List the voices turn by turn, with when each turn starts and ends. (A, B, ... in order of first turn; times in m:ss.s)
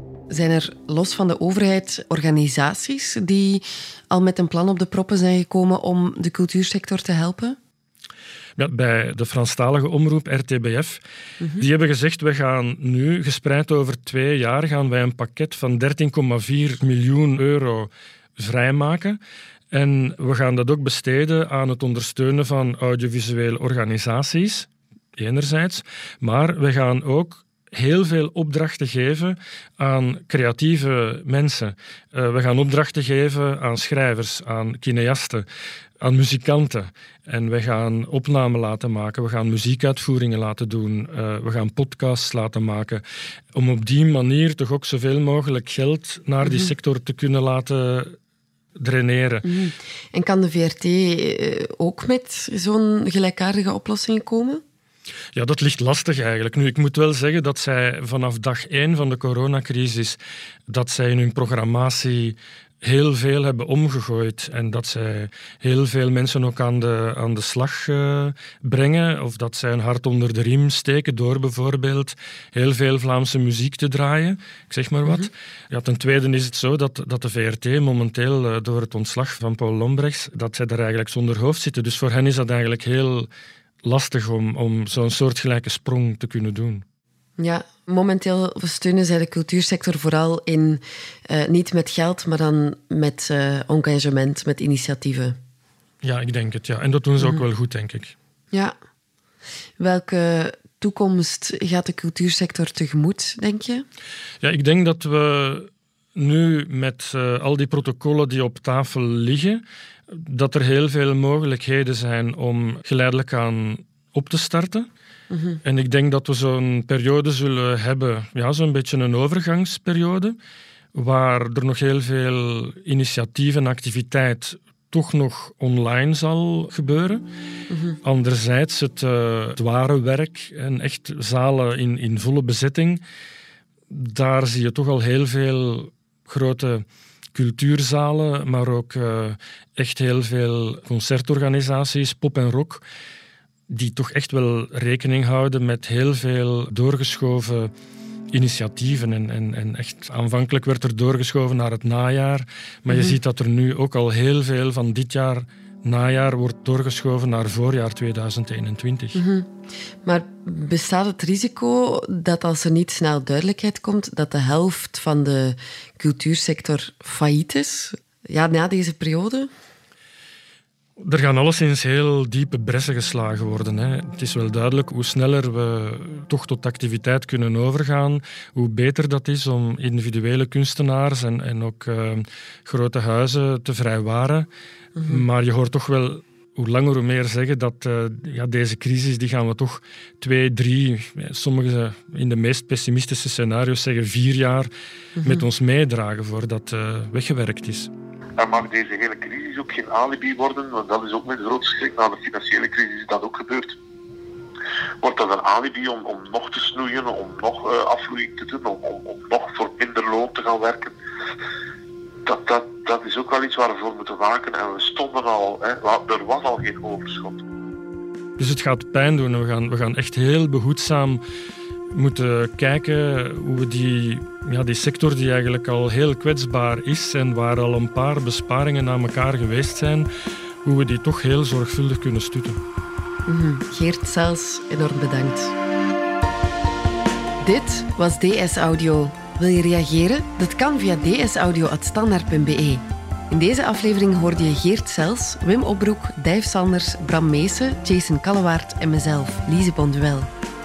0:00.3-0:07.6 A
0:08.6-0:11.0 B
0:11.6-0:19.2 B
0:19.7-0:35.4 B
0:36.0-0:43.0 B
0:43.5-0:48.2 B
0:46.4-0:46.7 A
0:48.8-0:49.4 B
0:49.4-0:54.6 A
0:55.3-1:23.3 B
1:23.8-1:26.8 B
1:27.4-1:35.4 A
1:36.0-1:38.1 B
1:37.2-1:37.4 A
1:39.8-1:43.8 A
1:44.4-1:54.8 B
1:55.3-1:55.6 A
1:55.6-2:00.3 B
2:00.9-2:07.2 B
2:07.7-2:08.0 A
2:08.0-2:13.0 B
2:13.9-2:22.8 B
2:23.7-2:27.7 B
2:28.3-2:39.2 B
2:32.9-2:33.2 A
2:39.1-2:39.5 A
2:40.0-2:49.5 A
2:51.0-3:04.5 B
3:05.1-3:14.7 B
3:15.2-3:17.9 B
3:18.4-3:23.8 C
3:25.0-3:30.9 C
3:32.2-3:37.4 C
3:38.4-3:41.2 B
3:41.9-3:50.1 B
3:50.6-3:52.6 B
3:53.3-3:55.5 A
3:57.4-4:10.3 A